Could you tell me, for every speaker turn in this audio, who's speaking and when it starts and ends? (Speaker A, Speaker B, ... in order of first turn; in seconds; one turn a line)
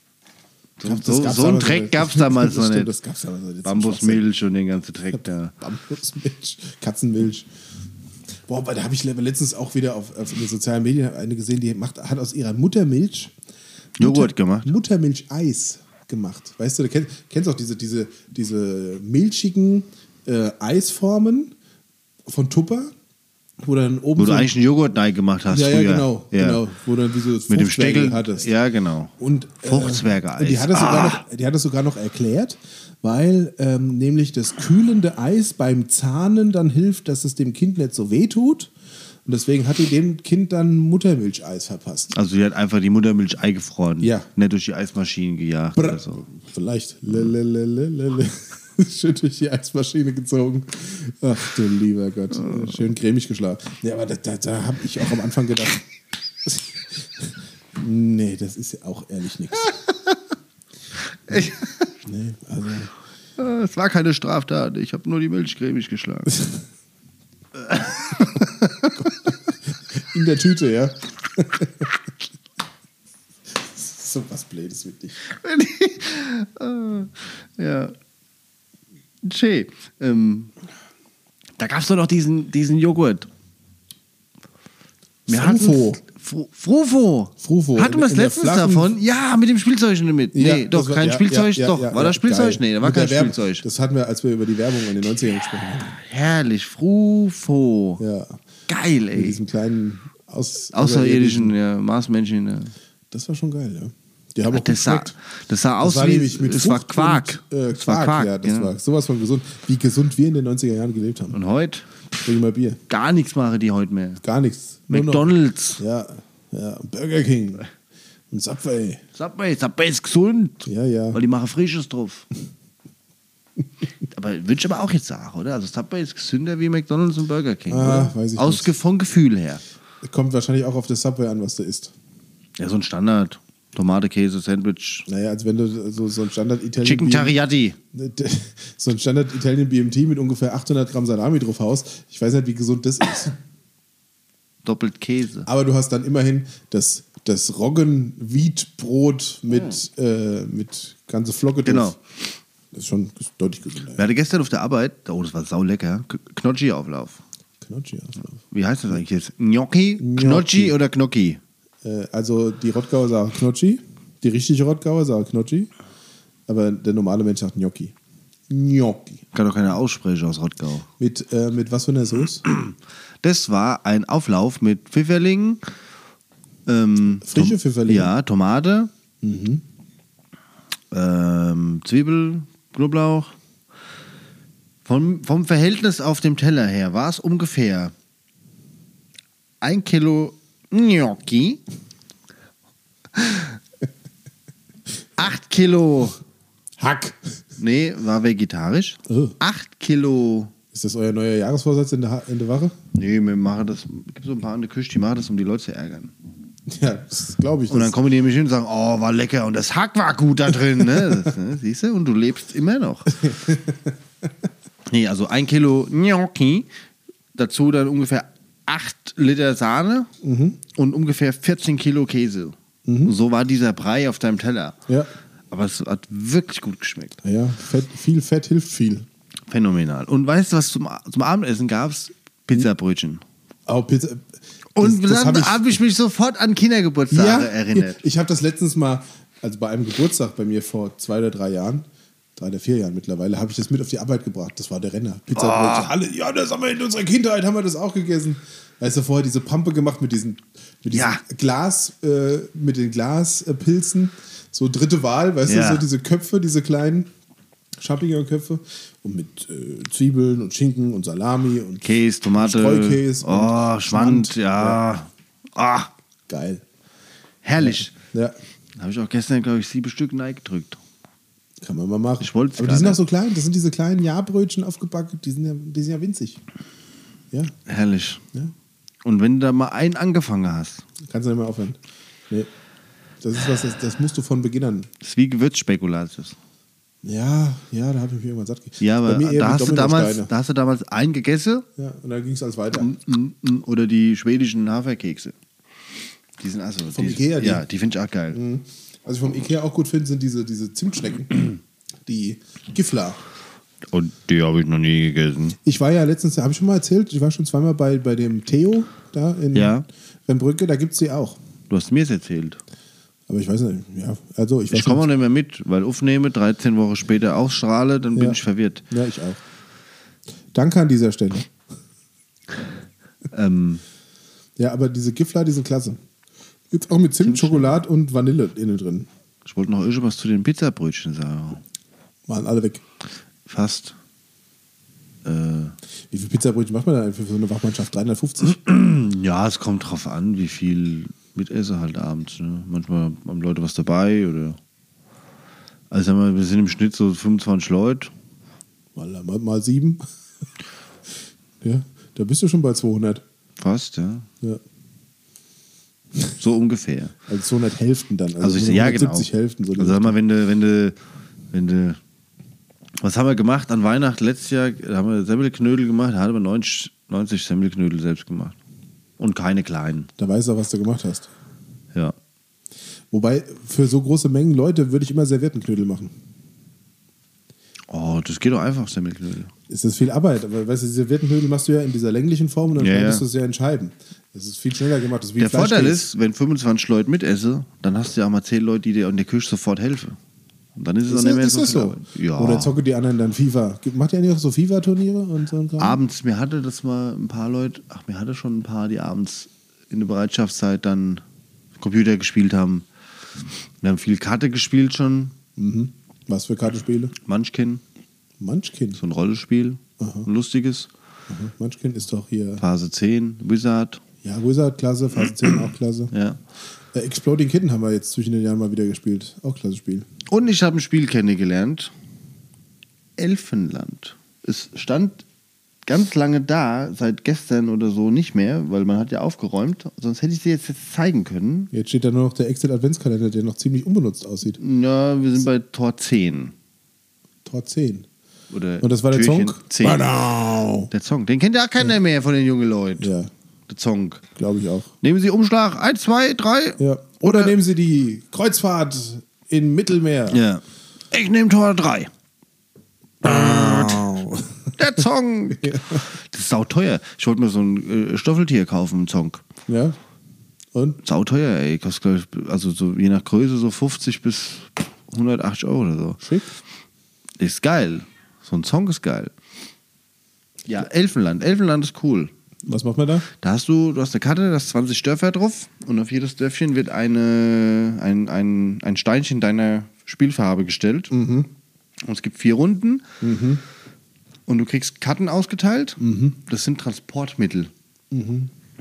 Speaker A: 0.8-2.9
Speaker B: 0.8-4.2
Speaker A: 3.6-5.5
Speaker B: 5.1-7.5
Speaker B: 8.5-13.3
Speaker A: 14.0-14.7
Speaker B: 14.0-21.5
Speaker B: 22.2-22.9
Speaker B: 23.6-24.5
Speaker A: 24.1-26.6
Speaker B: 25.5-28.5
Speaker A: 27.5-29.1
Speaker B: 29.2-38.7
Speaker A: 29.6-31.2
Speaker B: 39.2-42.1
Speaker A: 42.1-46.3
Speaker B: 44.0-44.3
Speaker B: 45.8-55.8
Speaker B: 56.4-59.8
Speaker A: 61.3-61.9
Speaker B: 62.0-62.9
Speaker A: 63.4-66.4
Speaker A: 67.6-69.2
Speaker B: 69.0-69.3
Speaker B: 69.9-71.9
Speaker B: 73.5-75.2
Speaker A: 75.2-77.9
Speaker A: 79.2-80.5
Speaker A: 81.6-83.3
Speaker B: 85.3-86.0
Speaker A: 85.3-93.6
Speaker B: 87.4-89.0
Speaker B: 90.3-95.9
Speaker A: 95.6-98.0
Speaker B: 98.0-98.4
Speaker A: 98.7-99.4
Speaker B: 99.1-101.5
Speaker A: 100.7-102.7
Speaker B: 103.1-105.1
Speaker A: 104.5-108.7
Speaker B: 105.8-111.4
Speaker A: 111.3-112.2
Speaker B: 112.2-112.8
Speaker A: 112.9-114.2
Speaker B: 114.2-117.6
Speaker A: 114.9-115.8
Speaker B: 118.3-119.0
Speaker A: 119.2-122.2
Speaker B: 120.7-121.2
Speaker A: 124.0-129.6
Speaker B: 127.7-128.7
Speaker B: 130.0-131.9
Speaker A: 132.6-135.1
Speaker B: 135.1-137.3
Speaker A: 136.8-137.8
Speaker B: 137.9-143.3
Speaker A: 144.6-145.5
Speaker B: 145.4-151.9
Speaker A: 151.6-152.0
Speaker B: 152.7-154.0
Speaker A: 153.9-157.2
Speaker B: 157.6-158.4
Speaker A: 158.5-161.4
Speaker B: 160.0-160.8
Speaker B: 161.8-165.7
Speaker B: 166.5-167.9
Speaker B: 168.5-169.2
Speaker A: 169.3-170.9
Speaker B: 171.0-172.4
Speaker A: 172.4-175.6
Speaker A: 176.7-178.9
Speaker B: 177.2-178.1
Speaker B: 179.2-179.6
Speaker A: 180.9-183.3
Speaker A: 184.8-187.9
Speaker A: 189.6-191.6
Speaker A: 193.2-193.5
Speaker A: 195.2-196.2
Speaker B: 196.8-197.2
Speaker A: 197.6-200.5
Speaker B: 199.1-199.3
Speaker B: 200.7-202.7
Speaker A: 202.9-206.1
Speaker B: 206.7-207.9
Speaker A: 207.7-213.2
Speaker B: 213.1-213.9
Speaker A: 214.9-216.7
Speaker A: 217.3-220.1
Speaker B: 220.2-220.6
Speaker A: 220.7-224.8
Speaker B: 222.8-223.1
Speaker A: 225.5-227.2
Speaker B: 227.2-229.1
Speaker A: 229.5-233.2
Speaker B: 233.7-235.8
Speaker A: 234.8-238.0
Speaker B: 237.1-257.1
Speaker A: 245.3-245.9
Speaker A: 250.9-251.2
Speaker A: 255.4-255.9
Speaker B: 257.8-261.9
Speaker A: 261.8-265.9
Speaker B: 262.4-264.8
Speaker B: 266.3-266.6
Speaker A: 267.4-267.9
Speaker B: 267.6-268.4
Speaker A: 268.8-270.8
Speaker B: 271.6-276.4
Speaker A: 272.2-273.0
Speaker A: 277.7-278.2
Speaker A: 279.0-280.8
Speaker B: 281.0-281.8
Speaker B: 283.2-284.9
Speaker A: 285.0-286.4
Speaker B: 287.0-290.3
Speaker A: 288.8-291.6
Speaker B: 291.8-292.9
Speaker A: 292.7-295.3
Speaker A: 296.4-298.4
Speaker B: 296.9-297.6
Speaker B: 298.3-301.5
Speaker B: 302.0-303.2
Speaker A: 303.9-305.6
Speaker B: 305.6-311.4
Speaker A: 309.5-309.9
Speaker A: 311.7-312.6
Speaker B: 313.3-315.1
Speaker A: 314.7-318.8
Speaker B: 318.9-319.4
Speaker B: 320.5-321.5
Speaker A: 323.3-323.8
Speaker B: 324.6-326.0
Speaker B: 326.7-329.1
Speaker A: 327.2-327.8
Speaker A: 329.4-331.6
Speaker B: 332.3-332.8
Speaker A: 333.4-333.9
Speaker A: 335.2-335.8
Speaker B: 336.1-338.6
Speaker A: 338.4-344.6
Speaker A: 345.9-348.1
Speaker B: 348.9-350.0
Speaker B: 351.6-353.2
Speaker A: 353.6-354.3
Speaker A: 356.4-357.1
Speaker B: 357.3-360.1
Speaker A: 358.4-360.9
Speaker A: 361.5-362.0
Speaker A: 363.0-368.6
Speaker A: 369.2-370.1
Speaker B: 370.2-371.3
Speaker B: 373.1-376.1
Speaker A: 377.9-379.5
Speaker B: 379.7-386.1
Speaker A: 382.8-383.2
Speaker A: 385.4-390.2
Speaker A: 390.8-392.7
Speaker B: 391.1-396.0
Speaker A: 395.8-401.2
Speaker A: 401.8-402.8
Speaker A: 403.8-405.3
Speaker B: 405.6-407.1
Speaker A: 407.2-407.8
Speaker B: 408.4-409.0
Speaker A: 408.9-410.9
Speaker B: 410.0-410.3
Speaker B: 411.3-412.6
Speaker A: 412.6-414.0
Speaker B: 414.2-416.1
Speaker A: 416.1-416.4
Speaker B: 416.9-420.1
Speaker A: 420.3-421.9
Speaker A: 423.2-425.2
Speaker A: 425.9-431.7
Speaker B: 431.7-434.6
Speaker A: 434.6-436.5
Speaker B: 437.4-438.1
Speaker A: 438.5-440.0
Speaker B: 438.8-440.9
Speaker A: 440.9-443.1
Speaker B: 443.0-443.3
Speaker A: 443.7-444.2
Speaker B: 444.4-444.9
Speaker A: 445.0-447.5
Speaker B: 446.8-450.4
Speaker A: 450.3-452.1
Speaker B: 453.2-454.7
Speaker A: 453.2-454.0
Speaker A: 454.8-459.4
Speaker B: 455.5-456.0
Speaker B: 459.7-460.0
Speaker B: 460.7-461.0
Speaker A: 461.0-466.2
Speaker B: 466.2-466.5
Speaker A: 467.4-469.3
Speaker A: 470.6-472.3
Speaker B: 472.6-473.3
Speaker A: 473.4-481.1
Speaker B: 481.1-481.5
Speaker A: 482.0-483.1
Speaker B: 483.2-483.6
Speaker A: 484.5-487.7
Speaker B: 486.0-486.4
Speaker B: 488.1-488.5